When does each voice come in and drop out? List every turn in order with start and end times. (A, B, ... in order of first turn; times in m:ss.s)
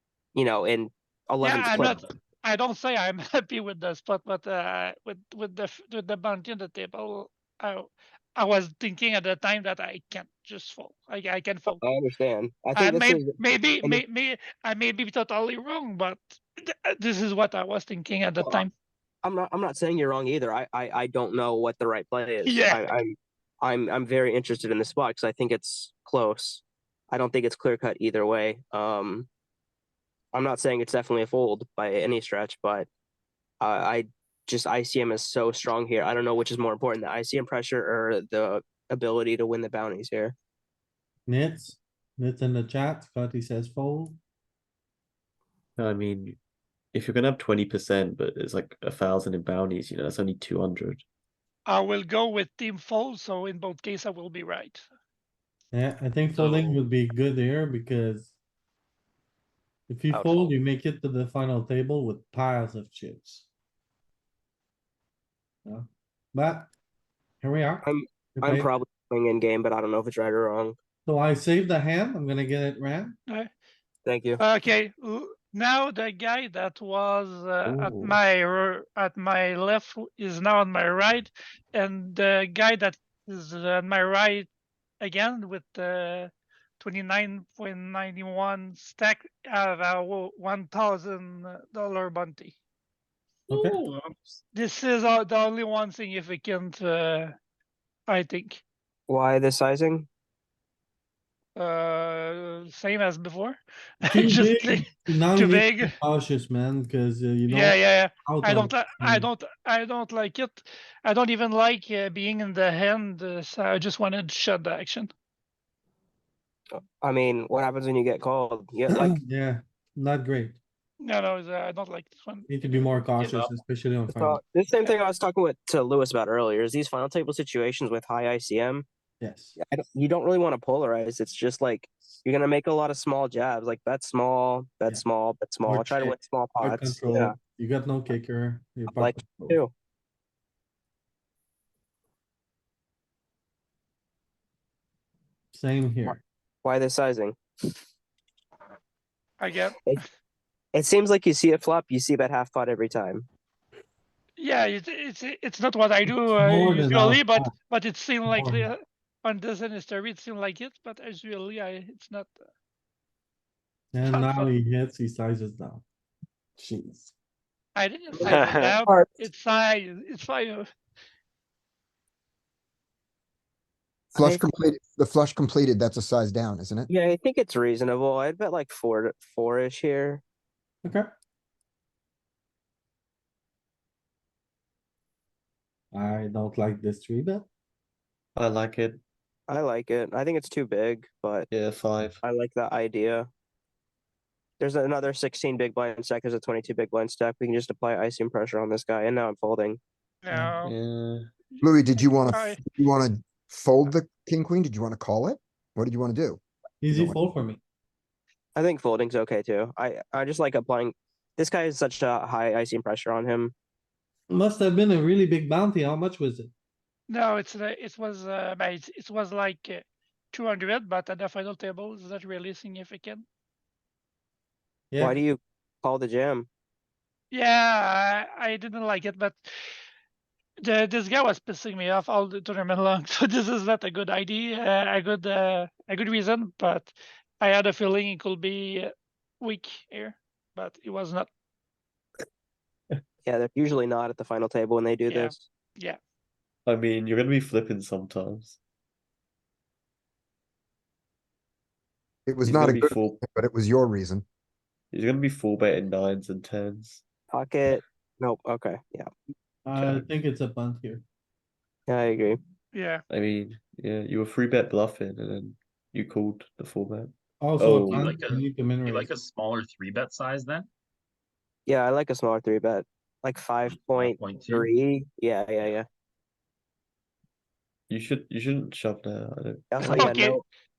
0:00.3-0:02.1 A
0:01.4-0:11.8 B
0:11.8-0:14.0 A
0:12.7-0:18.7 B
0:19.2-0:29.3 A
0:22.4-0:22.9 B
0:30.3-0:32.9 A
0:33.6-0:40.3 A
0:41.3-0:44.2 C
0:45.8-0:46.4 D
0:46.9-0:51.0 D
0:51.6-0:54.8 B
0:55.7-0:58.3 C
0:56.3-0:56.8 E
0:59.9-1:03.5 C
1:00.1-1:00.5 A
1:05.6-1:06.7 C
1:07.4-1:07.9 C
1:07.8-1:10.8 A
1:08.4-1:08.7 C
1:11.0-1:13.2 C
1:14.0-1:14.4 A
1:14.4-1:24.5 B
1:17.6-1:18.2 D
1:25.0-1:32.6 B
1:33.5-1:33.8 C
1:33.5-1:34.4 E
1:34.5-1:37.4 B
1:38.1-1:38.6 B
1:39.1-1:40.1 A
1:41.6-1:45.9 B
1:44.0-1:49.3 C
1:47.5-1:55.1 B
1:56.8-1:59.2 A
1:58.9-2:00.6 C
2:01.0-2:02.5 B
2:02.5-2:04.4 C
2:03.2-2:03.5 B
2:04.1-2:08.8 A
2:09.2-2:09.6 C
2:09.6-2:17.3 A
2:15.6-2:19.6 C
2:18.9-2:19.7 A
2:25.5-2:26.2 C
2:26.1-2:27.4 A
2:29.4-2:30.0 B
2:30.7-2:33.3 A
2:34.4-2:42.4 B
2:36.3-2:37.5 C
2:38.2-2:38.7 C
2:43.9-2:45.8 C
2:44.1-2:44.5 B
2:46.6-2:47.1 C
2:47.7-2:50.7 B
2:48.2-2:49.2 A
2:48.2-2:48.8 D
2:54.1-2:54.5 A
2:54.1-2:56.9 F
2:56.9-3:00.2 A
3:05.9-3:07.4 C
3:08.4-3:09.0 D
3:09.5-3:11.5 A
3:11.5-3:12.2 D
3:12.2-3:13.3 A
3:14.6-3:19.8 A
3:20.2-3:20.7 B
3:20.6-3:21.3 D
3:21.5-3:22.6 B
3:21.6-3:27.2 F
3:26.8-3:27.6 C
3:28.5-3:33.5 A
3:34.3-3:36.5 C
3:37.1-3:43.2 B
3:44.9-3:45.2 C
3:45.0-3:46.5 A
3:47.3-3:49.5 B
3:50.6-4:01.3 B
4:03.2-4:05.4 A
4:05.1-4:06.0 B
4:06.6-4:08.6 D
4:12.3-4:14.2 F
4:12.4-4:13.2 D
4:14.9-4:17.0 D
4:17.3-4:19.1 A
4:19.6-4:21.0 C
4:19.7-4:20.0 D
4:21.9-4:22.4 A
4:22.7-4:23.0 B
4:23.1-4:28.2 D
4:27.4-4:29.1 C
4:27.7-4:30.7 E
4:31.7-4:35.8 A
4:33.6-4:34.7 E
4:37.9-4:40.1 D
4:39.7-4:40.4 A
4:39.8-4:40.4 B